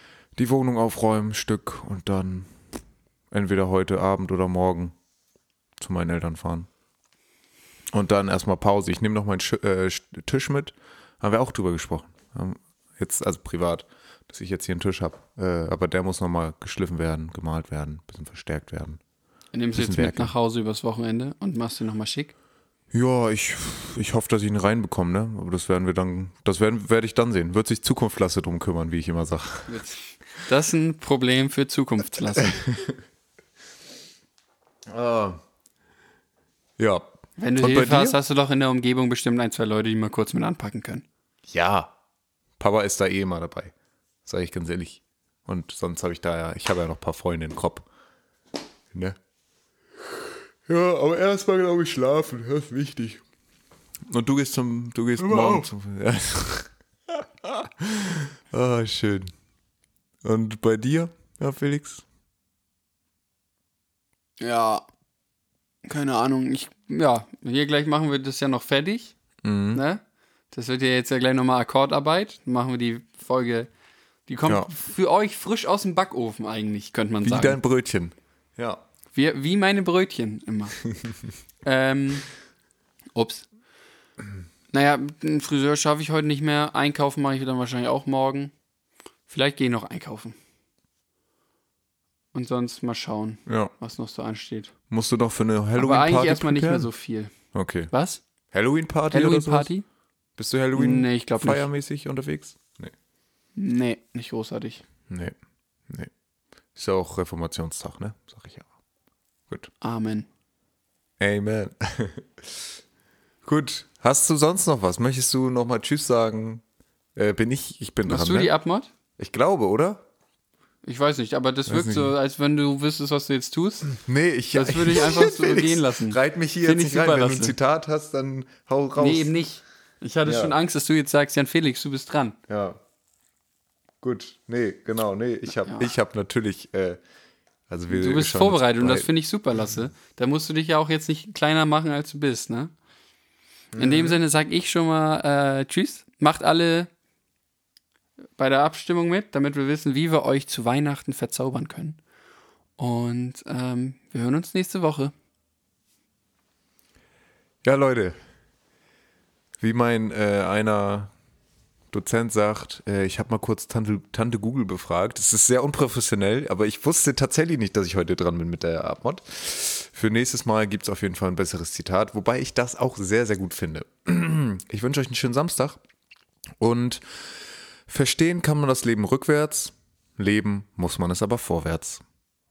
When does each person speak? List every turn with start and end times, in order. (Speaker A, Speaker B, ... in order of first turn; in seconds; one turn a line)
Speaker A: 0.3-2.5
Speaker A: 3.3-4.9
Speaker A: 5.8-6.7
Speaker A: 7.9-19.0
Speaker B: 19.5-22.3
Speaker A: 19.7-20.3
Speaker A: 22.9-29.8
Speaker B: 29.7-32.6
Speaker A: 32.4-33.0
Speaker A: 34.9-35.4
Speaker A: 36.8-38.2
Speaker B: 37.4-41.0
Speaker A: 41.5-41.9
Speaker A: 42.6-43.7
Speaker A: 44.2-47.9
Speaker A: 50.7-53.2
Speaker A: 54.1-59.3
Speaker B: 55.2-55.7
Speaker A: 60.2-62.0
Speaker B: 64.4-64.8
Speaker B: 65.8-69.1
Speaker A: 69.4-69.8
Speaker B: 69.7-73.7
Speaker B: 74.3-77.6
Speaker A: 77.2-78.8
Speaker B: 79.1-80.8
Speaker B: 81.6-82.2
Speaker B: 83.1-83.5
Speaker B: 84.7-88.5
Speaker B: 89.3-90.3
Speaker B: 92.3-94.7
Speaker A: 93.5-93.7
Speaker A: 94.9-96.9
Speaker B: 95.8-97.3
Speaker A: 97.5-97.9
Speaker B: 97.9-98.2
Speaker A: 98.5-99.7
Speaker B: 99.1-99.8
Speaker A: 100.4-102.9
Speaker B: 100.7-101.7
Speaker B: 103.5-104.8
Speaker A: 105.1-105.3
Speaker A: 106.7-108.7
Speaker B: 109.8-110.3
Speaker A: 111.2-112.6
Speaker A: 113.4-116.6
Speaker A: 117.2-118.5
Speaker B: 118.1-118.9
Speaker A: 119.2-120.0
Speaker B: 120.8-124.0
Speaker A: 121.7-122.1
Speaker A: 124.0-129.3
Speaker B: 124.5-127.5
Speaker B: 129.0-132.4
Speaker A: 130.2-130.5
Speaker A: 132.5-132.8
Speaker A: 134.0-137.0
Speaker B: 135.6-135.9
Speaker A: 137.7-139.1
Speaker B: 137.9-142.7
Speaker A: 143.7-144.2
Speaker B: 143.8-146.9
Speaker B: 148.4-152.0
Speaker B: 152.8-155.1
Speaker A: 157.6-158.2
Speaker A: 159.6-161.1
Speaker A: 161.9-175.8
Speaker A: 176.6-177.0
Speaker A: 177.9-182.0